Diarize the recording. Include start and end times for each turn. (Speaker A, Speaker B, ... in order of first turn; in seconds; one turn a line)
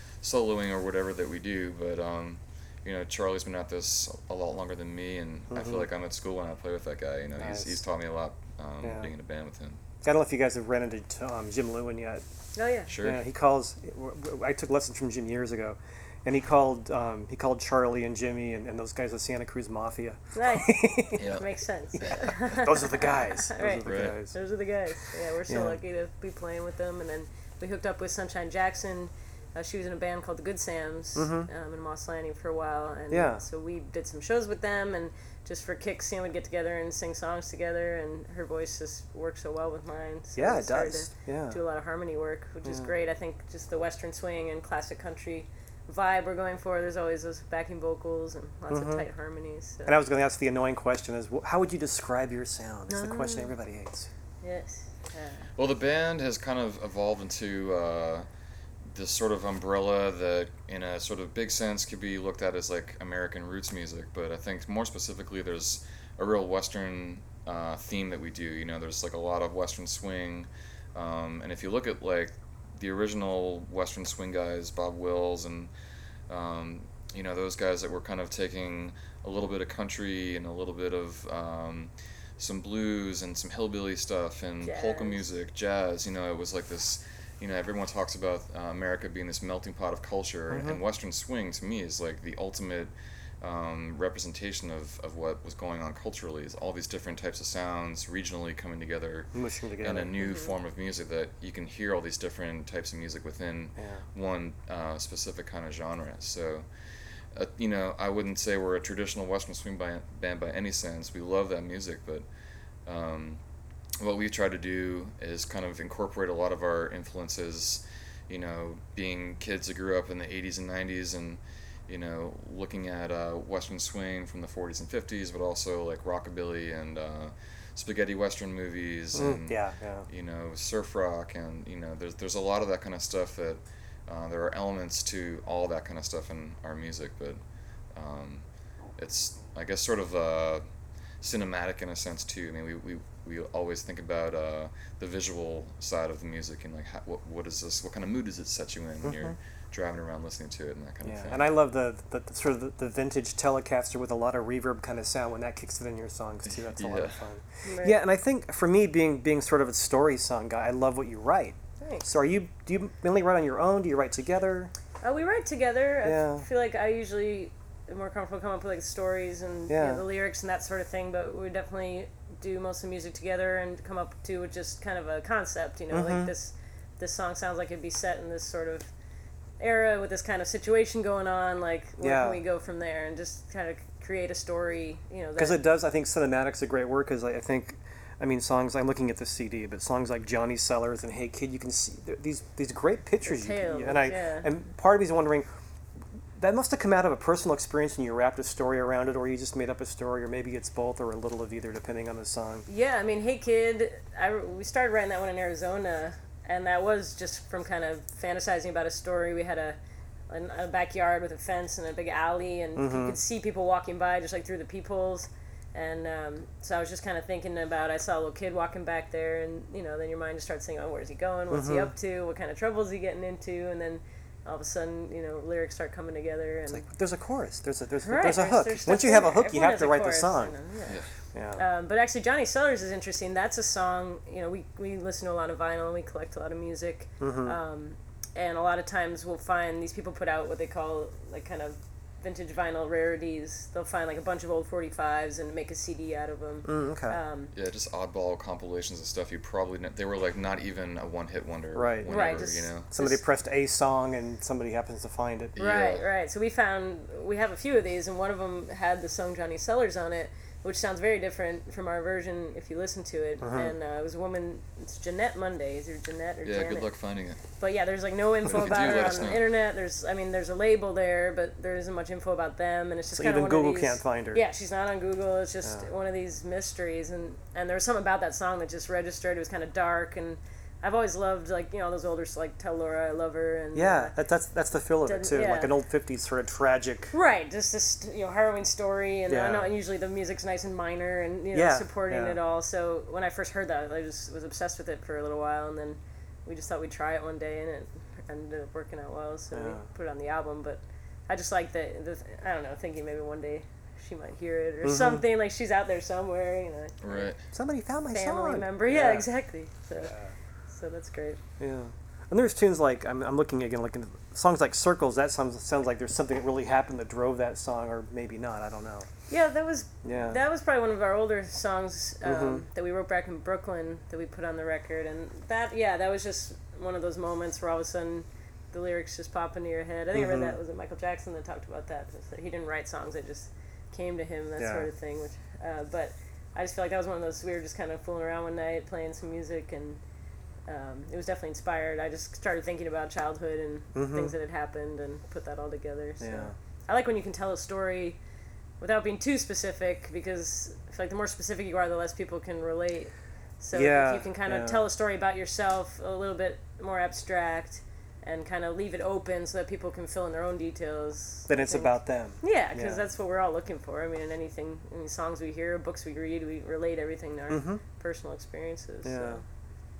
Speaker A: 0.2-9.8
Speaker B: 5.5-5.8
Speaker B: 7.4-7.8
Speaker B: 8.8-9.1
Speaker B: 10.0-12.2
Speaker C: 12.5-12.9
Speaker A: 12.9-13.2
Speaker B: 13.0-21.2
Speaker C: 20.3-50.0
Speaker A: 21.2-22.2
Speaker B: 21.9-24.4
Speaker A: 23.8-24.2
Speaker B: 24.9-25.8
Speaker B: 31.1-31.5
Speaker B: 33.1-33.4
Speaker B: 40.4-41.6
Speaker B: 42.6-42.9
Speaker B: 48.7-49.0
Speaker B: 49.8-54.1
Speaker C: 52.9-53.5
Speaker C: 54.4-55.5
Speaker A: 55.5-58.3
Speaker A: 58.9-75.7
Speaker A: 76.3-106.7
Speaker C: 84.6-85.2
Speaker B: 90.5-90.8
Speaker B: 99.3-100.1
Speaker C: 100.2-100.5
Speaker B: 103.8-104.0
Speaker A: 107.3-112.3
Speaker A: 112.8-113.4
Speaker A: 114.0-137.4
Speaker B: 129.1-130.1
Speaker A: 137.9-138.4
Speaker A: 139.0-140.6
Speaker A: 141.2-151.5
Speaker B: 149.0-149.3
Speaker B: 151.0-164.7
Speaker A: 156.5-157.2
Speaker C: 157.6-158.0
Speaker C: 161.8-162.1
Speaker C: 165.0-178.9
Speaker B: 166.0-166.4
Speaker B: 169.7-170.0
Speaker B: 175.9-176.3
Speaker C: 179.6-185.6
Speaker B: 182.0-182.4
Speaker B: 185.4-195.5
Speaker C: 193.2-194.5
Speaker B: 196.4-202.7
Speaker C: 202.7-209.8
Speaker C: 210.3-226.8
Speaker B: 212.8-213.2
Speaker B: 221.5-221.9
Speaker B: 226.7-230.5
Speaker C: 228.0-231.0
Speaker B: 231.3-231.6
Speaker C: 231.6-247.5
Speaker B: 237.2-237.6
Speaker B: 246.6-247.2
Speaker A: 247.5-252.9
Speaker B: 251.7-255.5
Speaker C: 252.1-253.2
Speaker A: 255.6-256.0
Speaker C: 255.6-266.9
Speaker B: 263.4-263.7
Speaker A: 266.4-267.4
Speaker C: 267.6-284.1
Speaker A: 268.4-269.5
Speaker B: 273.1-274.4
Speaker B: 275.6-275.9
Speaker B: 283.7-287.1
Speaker C: 285.0-285.7
Speaker C: 287.1-307.3
Speaker B: 289.3-289.7
Speaker B: 291.5-292.4
Speaker B: 299.5-299.9
Speaker B: 304.8-305.2
Speaker A: 307.0-307.4
Speaker B: 307.5-309.3
Speaker C: 308.1-310.1
Speaker B: 310.0-310.3
Speaker C: 310.7-311.4
Speaker B: 311.6-319.1
Speaker C: 319.3-340.0
Speaker B: 320.0-320.4
Speaker B: 322.2-322.6
Speaker B: 330.1-330.6
Speaker B: 334.6-334.9
Speaker C: 340.6-348.2
Speaker B: 343.9-344.3
Speaker B: 346.2-346.5
Speaker C: 348.8-369.4
Speaker B: 353.7-354.9
Speaker B: 361.5-363.1
Speaker B: 367.5-367.8
Speaker B: 369.0-369.4